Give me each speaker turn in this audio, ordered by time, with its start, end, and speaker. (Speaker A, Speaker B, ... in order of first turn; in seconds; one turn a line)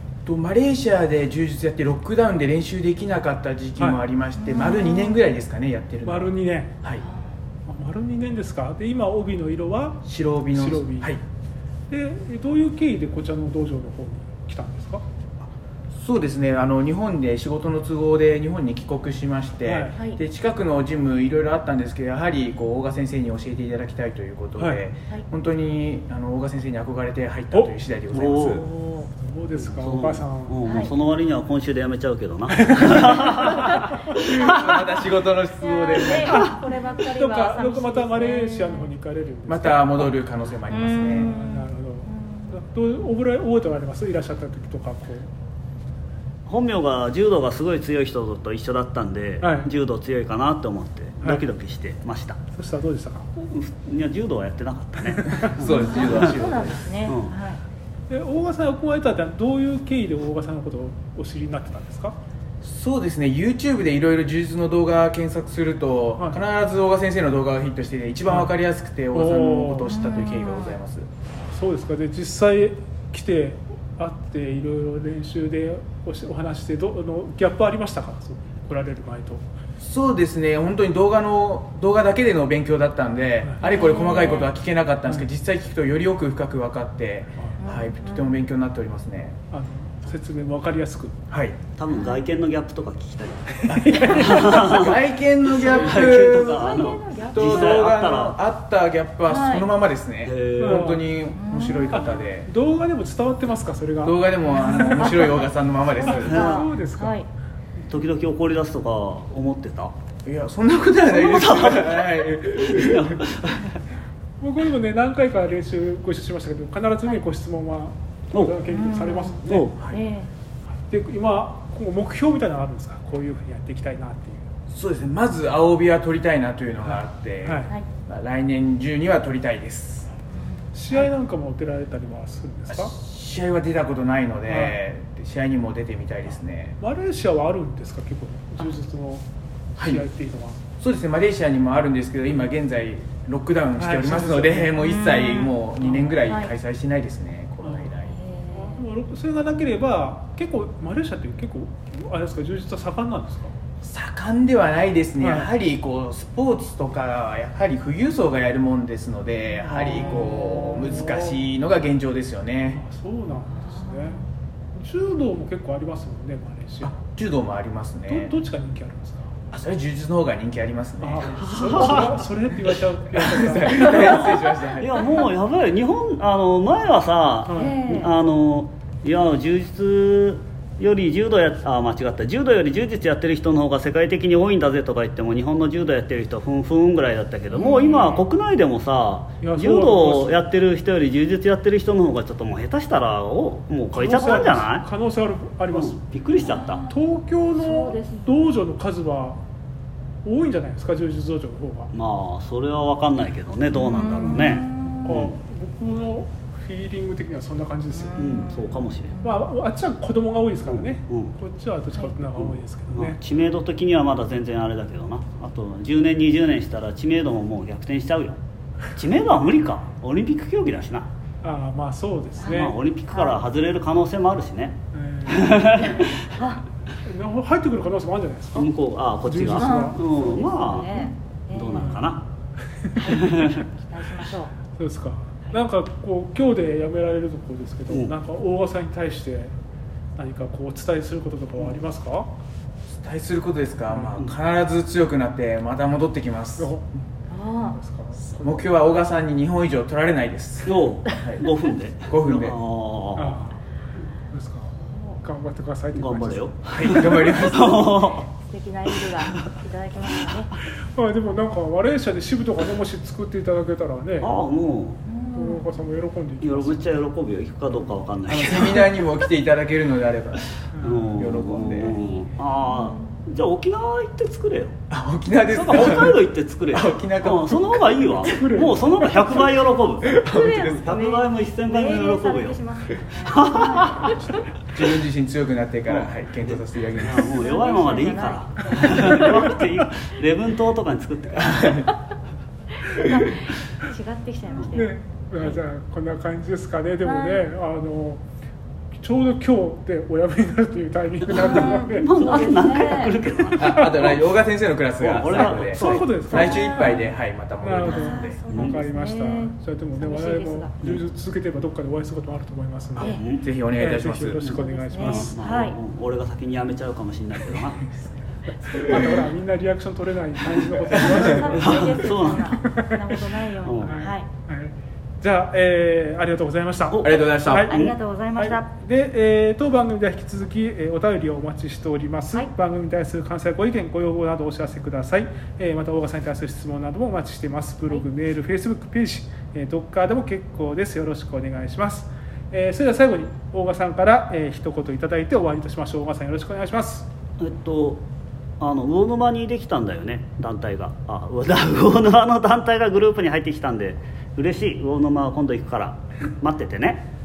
Speaker A: 0.2-7.0
Speaker B: 4.4-5.2
Speaker C: 6.0-6.7
Speaker C: 7.7-11.2
Speaker A: 10.0-11.2
Speaker C: 11.9-15.0
Speaker A: 15.9-28.6
Speaker C: 19.6-19.9
Speaker C: 24.6-24.8
Speaker D: 28.1-28.6
Speaker C: 28.3-30.6
Speaker D: 29.5-33.6
Speaker B: 30.6-30.9
Speaker C: 32.5-34.6
Speaker B: 33.6-34.5
Speaker A: 34.1-36.4
Speaker B: 35.6-38.9
Speaker C: 36.1-36.6
Speaker C: 37.1-40.1
Speaker A: 39.5-41.3
Speaker B: 40.7-42.6
Speaker C: 41.0-45.3
Speaker D: 46.5-52.4
Speaker C: 49.4-49.7
Speaker C: 52.5-53.3
Speaker D: 53.4-56.4
Speaker A: 55.4-56.9
Speaker B: 55.7-57.6
Speaker D: 57.0-57.3
Speaker C: 58.1-62.2
Speaker A: 62.6-71.1
Speaker C: 68.3-68.5
Speaker C: 69.1-69.9
Speaker B: 69.9-70.7
Speaker C: 71.5-79.4
Speaker A: 79.8-89.4
Speaker B: 83.6-84.5
Speaker B: 87.6-88.3
Speaker C: 89.5-91.2
Speaker A: 91.3-91.6
Speaker D: 91.8-95.0
Speaker B: 91.9-92.2
Speaker A: 93.7-102.5
Speaker C: 93.7-94.7
Speaker B: 95.5-97.9
Speaker D: 95.6-98.3
Speaker B: 99.3-99.7
Speaker D: 100.2-100.9
Speaker C: 100.6-101.1
Speaker B: 101.3-102.1
Speaker C: 101.9-105.3
Speaker A: 104.0-106.6
Speaker B: 104.5-107.3
Speaker C: 106.0-107.2
Speaker D: 106.2-106.7
Speaker D: 107.9-109.9
Speaker A: 110.2-113.2
Speaker D: 111.1-113.7
Speaker C: 114.4-119.7
Speaker D: 118.3-118.6
Speaker B: 118.7-120.3
Speaker D: 119.5-119.8
Speaker C: 120.9-124.4
Speaker A: 124.7-130.1
Speaker C: 126.8-127.7
Speaker C: 130.7-132.9
Speaker A: 132.7-136.8
Speaker C: 134.4-134.8
Speaker C: 136.8-140.6
Speaker A: 139.8-140.1
Speaker A: 140.8-148.2
Speaker C: 143.8-144.8
Speaker B: 144.8-145.5
Speaker B: 146.2-146.5
Speaker B: 147.9-148.8
Speaker C: 148.5-153.5
Speaker A: 153.8-162.8
Speaker C: 155.2-155.5
Speaker C: 159.6-161.4
Speaker C: 162.7-164.2
Speaker B: 163.5-164.2
Speaker C: 164.7-166.9
Speaker A: 166.8-168.3
Speaker C: 168.1-169.3
Speaker A: 169.5-172.2
Speaker C: 171.0-174.4
Speaker D: 171.5-172.1
Speaker A: 173.1-175.1
Speaker D: 173.7-194.8
Speaker C: 177.4-178.0
Speaker B: 177.6-178.1
Speaker B: 187.5-188.2
Speaker C: 189.4-190.4
Speaker C: 193.9-196.0
Speaker D: 195.7-196.8
Speaker B: 196.4-197.0
Speaker C: 196.9-199.4
Speaker B: 197.5-198.5
Speaker C: 200.2-201.9
Speaker D: 201.9-205.3
Speaker B: 203.7-205.2
Speaker C: 204.2-208.4
Speaker B: 207.9-209.4
Speaker D: 208.2-209.2
Speaker C: 209.2-213.2
Speaker D: 210.7-211.3
Speaker D: 212.4-218.4
Speaker D: 218.9-221.1
Speaker C: 221.4-222.8
Speaker B: 222.4-223.4
Speaker D: 222.4-224.8
Speaker C: 224.9-226.0
Speaker D: 225.3-226.2
Speaker B: 226.3-226.6
Speaker C: 227.0-230.0
Speaker D: 228.5-232.2
Speaker B: 229.5-232.0
Speaker C: 231.8-232.1
Speaker C: 232.8-233.5
Speaker B: 232.9-234.5
Speaker D: 233.1-233.6
Speaker C: 234.8-239.5
Speaker D: 237.9-238.1
Speaker C: 240.2-242.3
Speaker A: 242.8-246.7
Speaker C: 246.6-246.9
Speaker B: 247.3-247.8
Speaker C: 247.6-248.7
Speaker A: 248.4-251.5
Speaker D: 250.6-253.4
Speaker A: 252.1-252.6
Speaker C: 253.2-253.6
Speaker C: 254.3-256.6
Speaker D: 255.9-258.2
Speaker A: 256.7-257.9
Speaker B: 257.6-260.5
Speaker C: 260.9-264.3
Speaker D: 264.2-265.0
Speaker B: 265.1-265.6
Speaker C: 265.3-267.0
Speaker D: 266.4-269.0
Speaker A: 268.3-270.5
Speaker C: 270.7-271.3
Speaker D: 270.7-274.7
Speaker A: 271.0-272.0
Speaker B: 271.8-273.1
Speaker A: 274.9-278.4
Speaker D: 275.5-284.2
Speaker C: 278.1-279.6
Speaker A: 280.0-280.9
Speaker B: 280.2-284.4
Speaker A: 284.3-287.3
Speaker D: 285.9-291.8
Speaker B: 287.2-289.6
Speaker A: 291.3-291.9
Speaker B: 292.8-295.6
Speaker C: 294.6-298.2
Speaker B: 297.0-297.5
Speaker C: 299.0-302.7
Speaker D: 301.3-304.4
Speaker B: 301.4-303.1
Speaker A: 303.5-308.4
Speaker D: 305.0-307.0
Speaker C: 305.7-306.8
Speaker B: 306.5-307.0
Speaker C: 307.6-313.2
Speaker B: 307.8-310.7
Speaker D: 308.5-308.8
Speaker B: 313.0-313.2
Speaker D: 313.0-313.4
Speaker A: 313.4-314.6
Speaker C: 313.8-315.3
Speaker D: 314.4-317.8
Speaker B: 314.4-315.8
Speaker C: 318.6-323.2
Speaker A: 318.8-319.2
Speaker A: 320.9-321.4
Speaker B: 320.9-324.3
Speaker D: 321.5-322.6
Speaker D: 323.6-323.9
Speaker C: 323.8-327.7
Speaker D: 326.9-327.9
Speaker A: 327.0-327.7
Speaker B: 327.7-328.6
Speaker C: 328.4-347.1
Speaker D: 347.4-348.0
Speaker D: 348.6-357.1